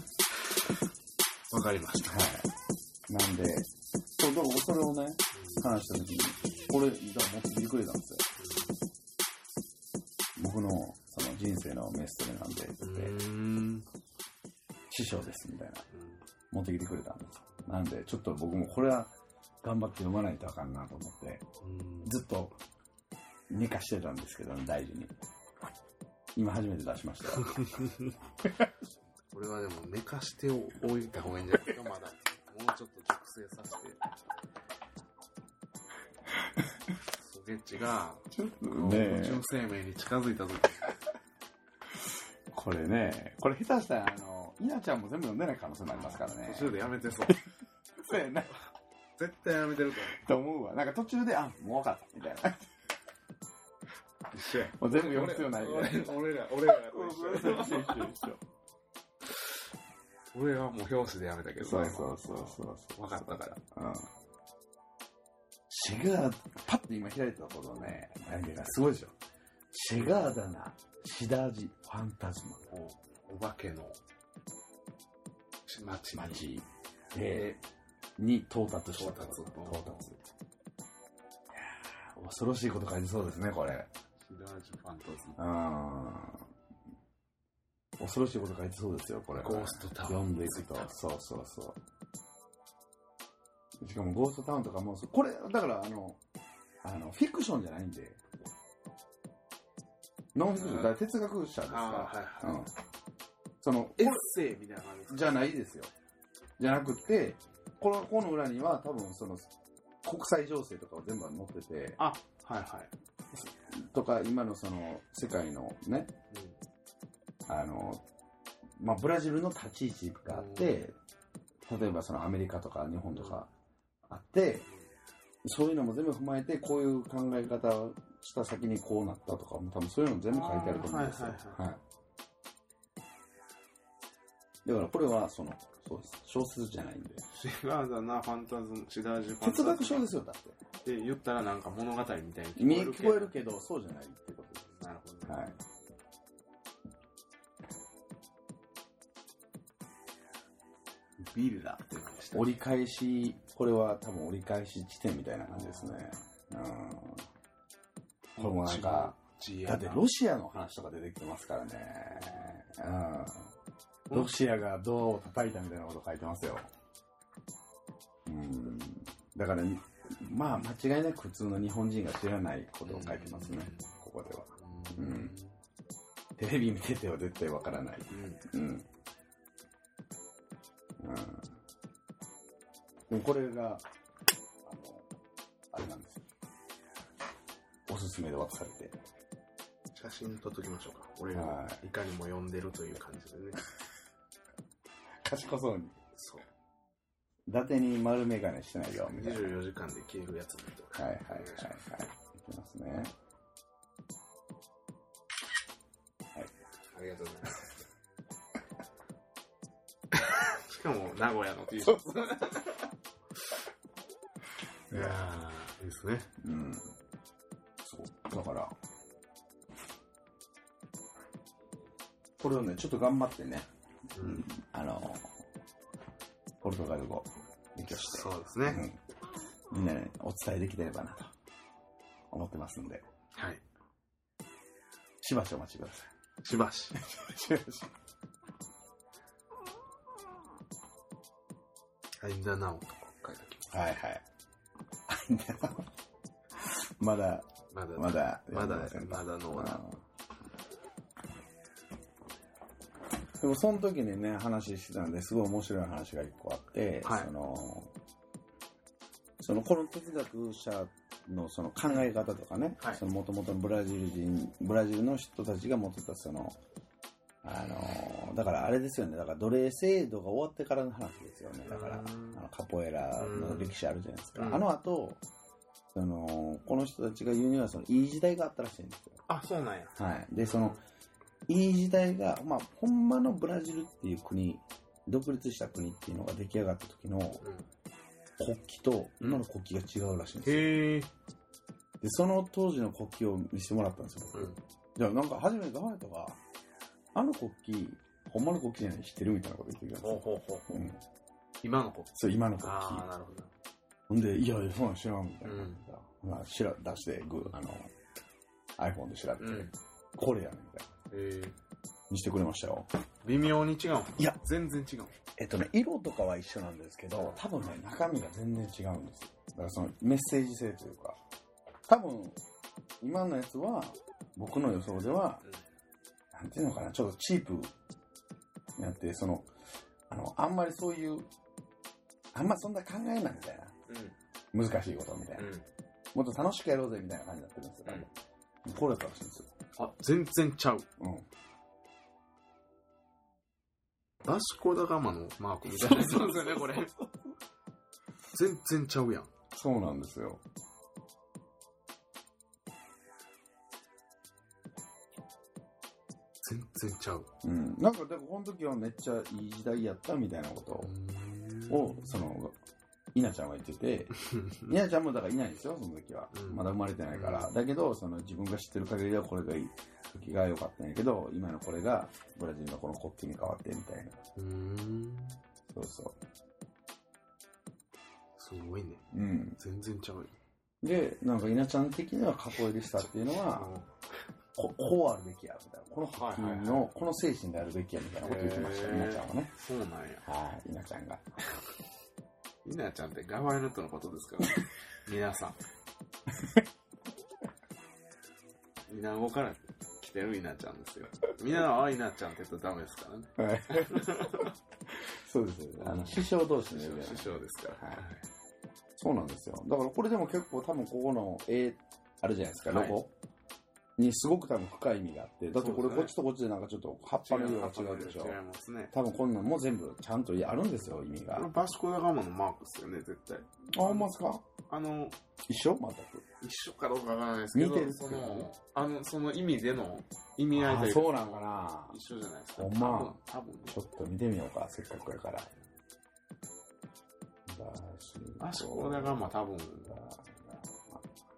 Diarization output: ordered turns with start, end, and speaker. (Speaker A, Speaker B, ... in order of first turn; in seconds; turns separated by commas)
Speaker A: 0.3-0.8, Speaker A: 1.5-2.1, Speaker B: 2.1-2.5, Speaker B: 3.1-8.2, Speaker A: 5.3-5.8, Speaker A: 6.4-6.7, Speaker A: 8.4-8.8, Speaker B: 10.4-13.1, Speaker A: 12.8-13.8, Speaker B: 14.9-15.9, Speaker A: 15.9-16.2, Speaker B: 16.5-19.1, Speaker B: 19.6-21.4, Speaker A: 21.6-22.2, Speaker B: 22.0-22.6, Speaker B: 23.5-25.1, Speaker B: 26.4-27.6, Speaker A: 27.3-28.1, Speaker A: 29.3-34.0, Speaker A: 37.1-41.0, Speaker B: 38.3-39.4, Speaker B: 42.5-46.7, Speaker A: 45.9-47.4, Speaker B: 47.3-48.6, Speaker A: 49.2-50.2, Speaker B: 50.0-52.7, Speaker A: 54.3-58.2, Speaker B: 54.7-58.4, Speaker A: 60.3-63.6, Speaker B: 61.6-64.1, Speaker B: 65.7-69.2, Speaker B: 69.7-72.7, Speaker A: 69.9-70.4, Speaker A: 72.7-74.0, Speaker A: 75.7-76.5, Speaker B: 76.1-77.5, Speaker A: 77.3-77.6, Speaker B: 78.2-80.1, Speaker A: 78.9-80.2, Speaker B: 81.5-83.9, Speaker A: 84.2-85.4, Speaker B: 85.4-86.5, Speaker B: 88.0-91.8, Speaker A: 89.3-91.0, Speaker B: 93.8-96.2, Speaker B: 96.8-98.2, Speaker B: 100.3-102.7, Speaker A: 100.5-101.0, Speaker A: 101.7-102.7, Speaker B: 103.6-104.3, Speaker A: 104.0-105.4, Speaker B: 105.1-105.9, Speaker B: 106.6-109.5, Speaker B: 110.0-112.0, Speaker A: 112.0-112.9, Speaker B: 113.3-116.1, Speaker A: 116.3-116.6, Speaker B: 117.5-118.0, Speaker B: 118.8-121.0, Speaker A: 120.3-120.8, Speaker B: 121.7-123.5, Speaker A: 123.1-123.4, Speaker B: 124.1-124.7, Speaker B: 125.4-131.8, Speaker A: 130.3-131.6, Speaker B: 134.7-137.2, Speaker A: 137.3-140.1, Speaker B: 139.4-140.6, Speaker A: 140.8-143.3, Speaker B: 142.6-144.7, Speaker A: 144.7-145.6, Speaker B: 145.3-145.6, Speaker A: 151.2-152.6, Speaker B: 152.3-157.3, Speaker A: 155.5-156.1, Speaker B: 158.4-159.2, Speaker A: 158.4-160.1, Speaker B: 159.7-163.5, Speaker A: 162.1-162.6, Speaker B: 164.1-166.7, Speaker B: 168.3-175.3, Speaker A: 172.8-173.9, Speaker A: 174.6-175.6, Speaker B: 176.4-178.9, Speaker A: 178.1-178.4, Speaker B: 181.0-181.6, Speaker B: 183.1-183.8, Speaker B: 184.7-185.1, Speaker B: 185.7-186.2, Speaker B: 187.9-189.0, Speaker A: 189.9-193.6, Speaker B: 191.3-191.8, Speaker B: 195.2-196.0, Speaker A: 196.1-196.5, Speaker B: 197.5-199.6, Speaker A: 198.9-201.9, Speaker B: 201.0-203.1, Speaker A: 206.9-207.7, Speaker A: 210.2-213.6, Speaker B: 211.8-212.2, Speaker B: 214.9-215.2, Speaker A: 214.9-216.3, Speaker B: 216.4-216.9, Speaker B: 217.8-218.7, Speaker B: 222.4-223.7, Speaker A: 224.2-224.5, Speaker B: 224.2-225.3, Speaker B: 226.6-229.0, Speaker A: 227.9-228.8, Speaker B: 229.7-231.3, Speaker B: 232.3-233.0, Speaker A: 233.3-233.6, Speaker B: 235.2-236.1, Speaker A: 236.4-237.0, Speaker B: 236.9-237.9, Speaker A: 242.2-243.7, Speaker B: 243.7-244.2, Speaker B: 245.1-245.9, Speaker B: 246.6-250.0, Speaker A: 247.7-249.8, Speaker B: 253.4-257.9, Speaker A: 257.0-257.3, Speaker B: 259.4-266.6, Speaker B: 267.4-275.2, Speaker A: 271.7-272.4, Speaker A: 273.2-273.7, Speaker A: 274.4-274.7, Speaker B: 275.9-279.2, Speaker A: 279.3-280.8, Speaker B: 280.0-280.8, Speaker B: 281.5-287.4, Speaker A: 287.4-287.7, Speaker B: 288.4-290.9, Speaker A: 290.4-291.1, Speaker B: 292.0-296.4, Speaker A: 294.3-294.6, Speaker B: 297.1-301.0, Speaker A: 300.0-300.9, Speaker A: 301.6-303.5, Speaker B: 302.1-303.1, Speaker B: 304.1-307.9, Speaker A: 305.4-305.8, Speaker B: 308.8-310.9, Speaker A: 309.4-309.8, Speaker A: 311.1-311.6, Speaker B: 312.1-312.9, Speaker A: 313.2-315.2, Speaker B: 315.4-321.2, Speaker A: 317.1-317.4, Speaker B: 321.9-322.4, Speaker B: 323.0-325.4, Speaker B: 326.3-327.7, Speaker B: 328.8-329.5, Speaker B: 330.1-331.3, Speaker B: 332.3-333.8, Speaker A: 333.9-334.1, Speaker B: 334.5-335.5, Speaker A: 335.4-335.7, Speaker B: 336.1-338.1, Speaker B: 338.6-339.5, Speaker A: 339.8-340.9, Speaker B: 341.0-341.3, Speaker A: 344.2-346.9, Speaker B: 345.7-347.1, Speaker A: 348.3-349.3, Speaker B: 349.5-350.4, Speaker A: 356.4-357.3, Speaker B: 357.4-360.9, Speaker A: 360.8-362.3, Speaker B: 361.7-362.6, Speaker B: 363.1-374.2, Speaker A: 364.2-364.7, Speaker A: 366.3-367.5, Speaker A: 374.4-375.4, Speaker B: 375.7-376.2, Speaker A: 378.4-379.1, Speaker B: 379.1-379.6, Speaker A: 379.6-380.3, Speaker B: 380.8-383.7, Speaker A: 383.0-383.9, Speaker B: 384.6-389.5, Speaker A: 386.1-386.9, Speaker A: 388.2-390.2, Speaker B: 390.2-391.3, Speaker A: 392.6-395.6, Speaker A: 398.9-404.5, Speaker B: 403.4-404.5, Speaker B: 405.0-408.0, Speaker A: 405.8-408.2, Speaker B: 409.0-413.1, Speaker A: 412.7-413.0, Speaker B: 414.0-418.4, Speaker A: 415.5-416.1, Speaker A: 417.2-418.9, Speaker B: 418.9-421.5, Speaker A: 421.3-424.1, Speaker B: 423.7-424.4, Speaker A: 424.7-425.2, Speaker B: 425.5-426.2, Speaker A: 426.4-433.8, Speaker B: 427.5-428.5, Speaker B: 430.5-432.0, Speaker B: 432.6-433.2, Speaker B: 433.7-435.5, Speaker B: 437.5-439.3, Speaker A: 438.4-440.0, Speaker B: 439.9-441.1